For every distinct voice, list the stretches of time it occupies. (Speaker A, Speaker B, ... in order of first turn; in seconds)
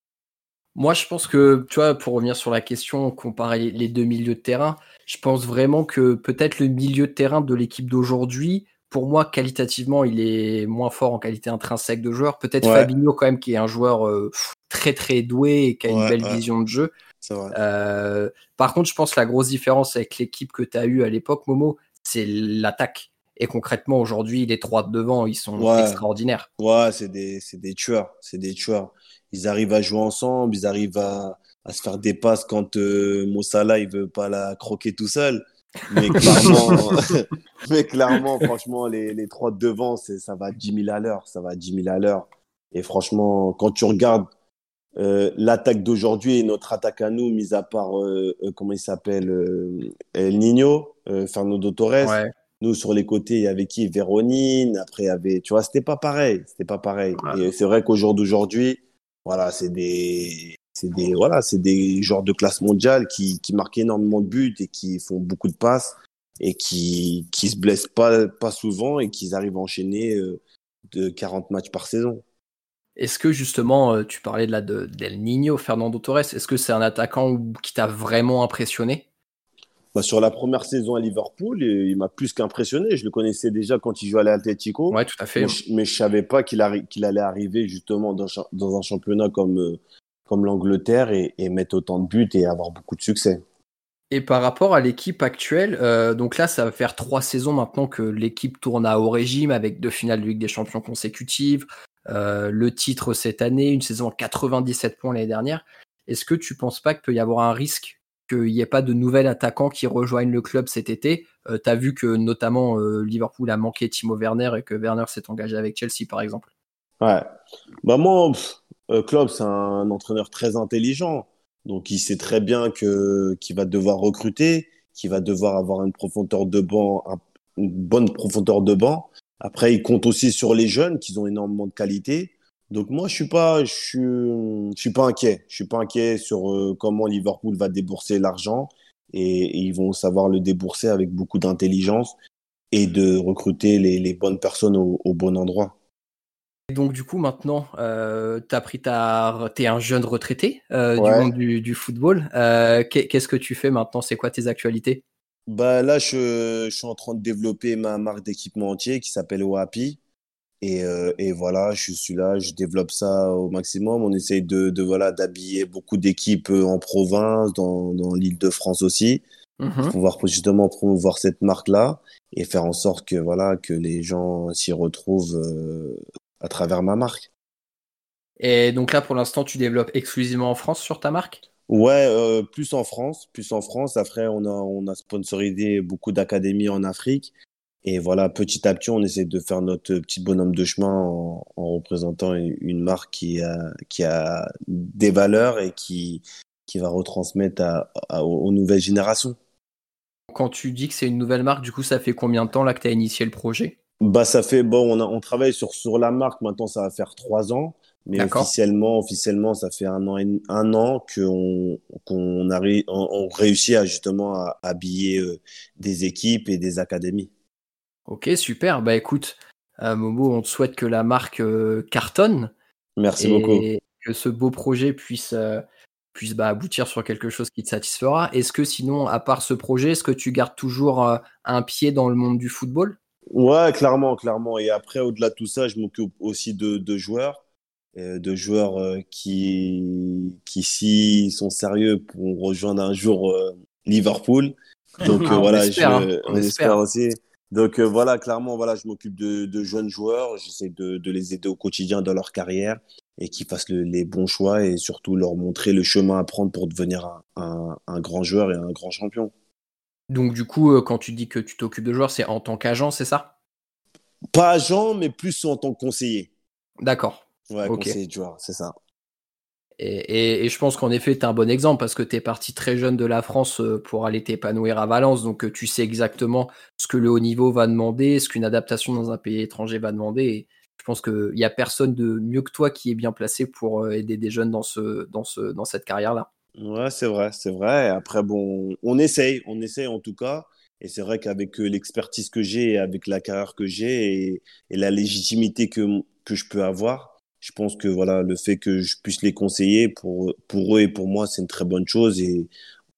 Speaker A: 0.8-16.9, 17.5-26.5, 36.1-36.8, 52.0-52.3, 73.0-79.0, 84.9-85.6, 94.1-116.5, 146.7-155.0, 169.6-169.9, 178.4-181.4, 200.3-203.7, 208.2-208.5, 218.1-222.5, 223.2-225.6, 226.1-233.0, 245.2-246.8, 260.1-263.3, 266.8-267.9, 269.8-286.3
Speaker B: 12.6-12.9, 15.9-16.4, 17.2-17.6, 25.6-26.0, 26.6-44.3, 45.0-70.4, 70.9-72.2, 79.9-93.4, 117.0-117.3, 117.8-142.2, 142.7-145.8, 151.0-151.3, 155.5-160.0, 160.6-169.2, 169.9-177.3, 181.7-187.3, 187.8-199.4, 204.0-217.3, 223.0-223.7, 233.3-237.4, 237.9-259.3, 264.3-266.3, 267.5-268.7, 286.6-302.5